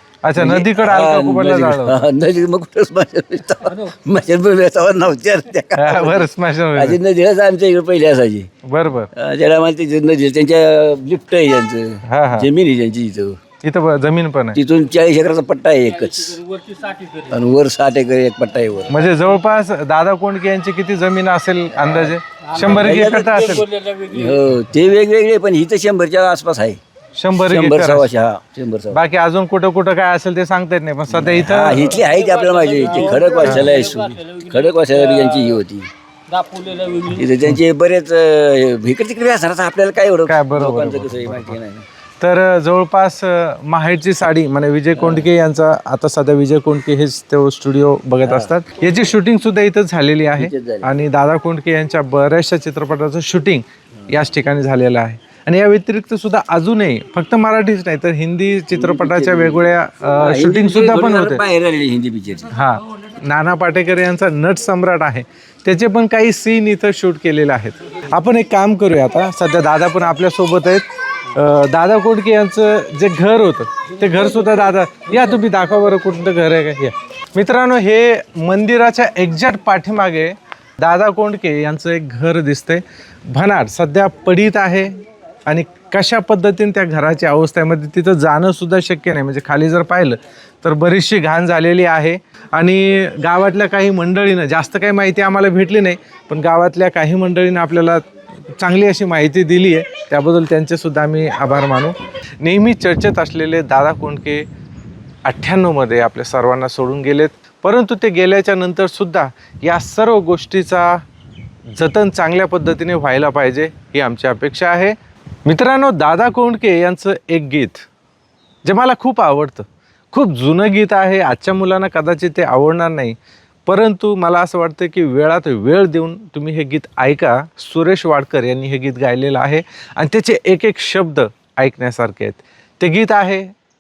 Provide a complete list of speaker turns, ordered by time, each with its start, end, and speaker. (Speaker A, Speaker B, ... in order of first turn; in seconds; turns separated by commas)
Speaker A: 0.2-2.1, Speaker B: 0.4-8.5, Speaker A: 5.8-7.0, Speaker A: 8.7-9.1, Speaker B: 9.2-13.4, Speaker A: 12.1-12.5, Speaker A: 13.6-14.6, Speaker B: 14.5-16.4, Speaker C: 16.0-17.4, Speaker B: 17.3-19.0, Speaker A: 18.9-23.7, Speaker C: 22.6-24.4, Speaker B: 22.6-23.6, Speaker B: 24.1-26.8, Speaker A: 27.2-28.1, Speaker B: 27.4-29.0, Speaker A: 28.9-32.0, Speaker B: 31.1-35.9, Speaker C: 32.0-35.6, Speaker A: 33.4-33.7, Speaker C: 36.3-37.3, Speaker B: 37.1-41.9, Speaker A: 40.3-41.6, Speaker A: 42.2-61.4, Speaker B: 45.0-45.3, Speaker B: 48.2-48.5, Speaker B: 50.4-51.0, Speaker B: 58.7-62.5, Speaker A: 62.5-104.5, Speaker A: 105.3-111.0, Speaker A: 111.8-117.9, Speaker A: 118.7-133.5